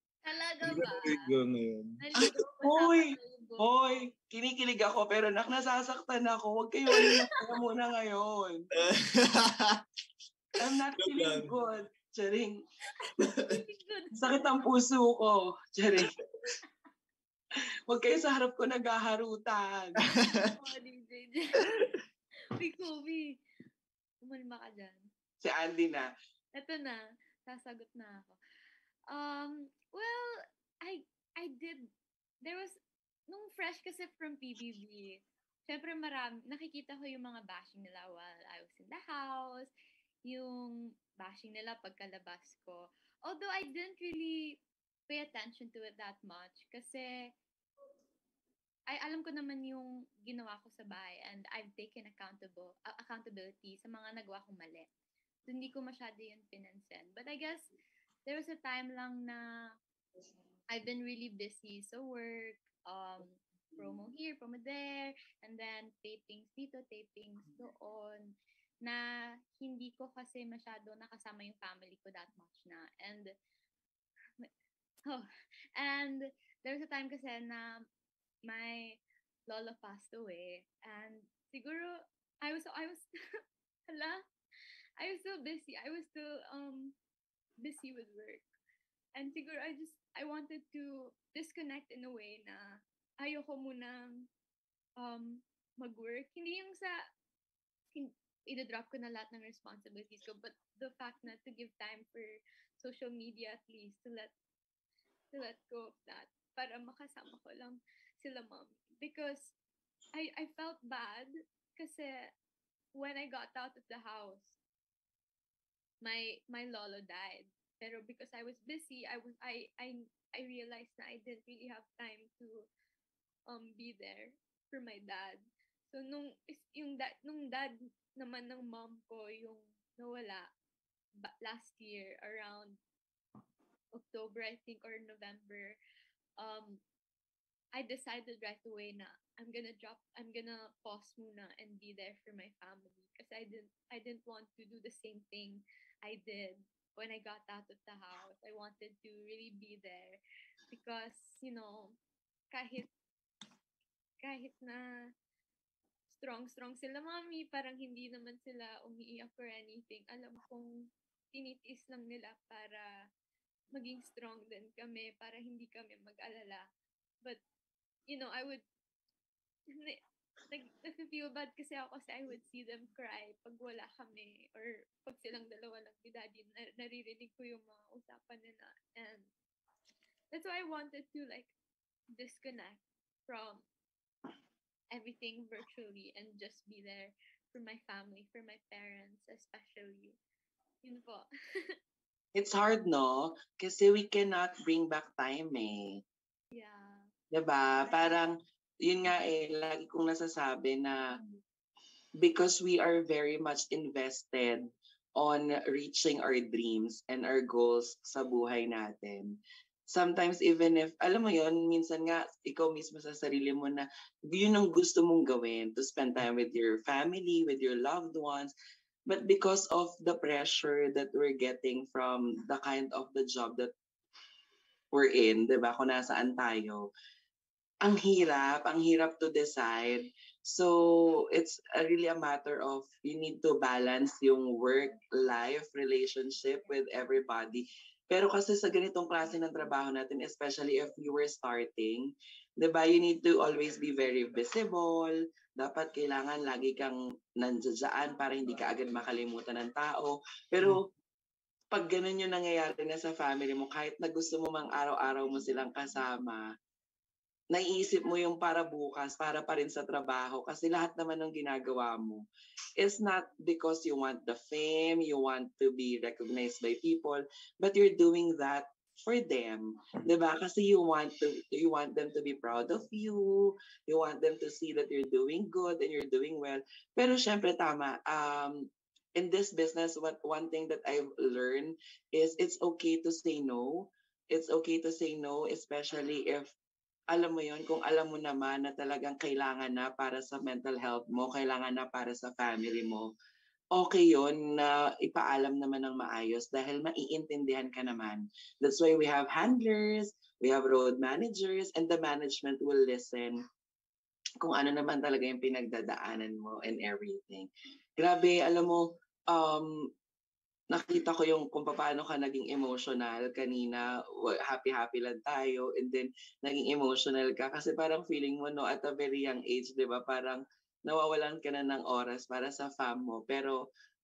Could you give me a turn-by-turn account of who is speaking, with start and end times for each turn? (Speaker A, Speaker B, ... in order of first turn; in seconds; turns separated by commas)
Speaker A: 0.2-1.3, Speaker B: 0.6-2.0, Speaker A: 2.0-3.9, Speaker C: 2.6-8.7, Speaker A: 7.0-7.4, Speaker B: 8.7-9.8, Speaker C: 10.6-12.6, Speaker B: 11.0-11.5, Speaker B: 13.2-13.6, Speaker A: 13.2-14.3, Speaker C: 14.2-16.1, Speaker C: 17.9-20.0, Speaker A: 20.0-21.8, Speaker B: 20.2-20.5, Speaker A: 22.5-23.4, Speaker A: 24.2-25.0, Speaker C: 25.4-26.1, Speaker A: 26.5-28.4, Speaker A: 29.1-31.9, Speaker A: 32.4-32.8, Speaker A: 33.3-39.7, Speaker A: 40.3-47.3, Speaker A: 48.9-54.9, Speaker A: 55.5-57.7, Speaker A: 58.3-59.4, Speaker A: 60.7-73.3, Speaker A: 75.1-77.9, Speaker A: 78.5-83.0, Speaker A: 83.9-84.2, Speaker A: 85.0-87.0, Speaker A: 87.6-88.4, Speaker A: 89.2-94.3, Speaker A: 95.0-97.0, Speaker A: 97.9-104.3, Speaker A: 105.3-109.5, Speaker A: 110.2-112.3, Speaker A: 112.9-114.6, Speaker A: 116.0-122.7, Speaker A: 123.5-130.5, Speaker A: 131.2-132.8, Speaker A: 133.9-135.8, Speaker A: 136.4-136.8, Speaker A: 137.7-150.2, Speaker A: 150.7-152.0, Speaker A: 152.5-152.9, Speaker A: 154.2-154.9, Speaker A: 156.1-163.1, Speaker A: 163.7-166.7, Speaker A: 168.1-168.6, Speaker A: 169.7-179.3, Speaker A: 180.3-181.5, Speaker A: 182.2-183.6, Speaker A: 184.9-190.2, Speaker A: 190.8-191.2, Speaker C: 192.3-196.0, Speaker A: 196.5-197.1, Speaker C: 197.3-201.2, Speaker C: 202.2-218.5, Speaker C: 219.1-223.7, Speaker C: 224.9-226.9, Speaker C: 227.8-250.9, Speaker C: 251.7-256.4, Speaker C: 257.5-262.2, Speaker C: 262.8-286.5, Speaker C: 287.1-293.1, Speaker C: 293.7-303.4, Speaker C: 304.4-307.5, Speaker C: 308.0-309.8, Speaker C: 310.7-323.6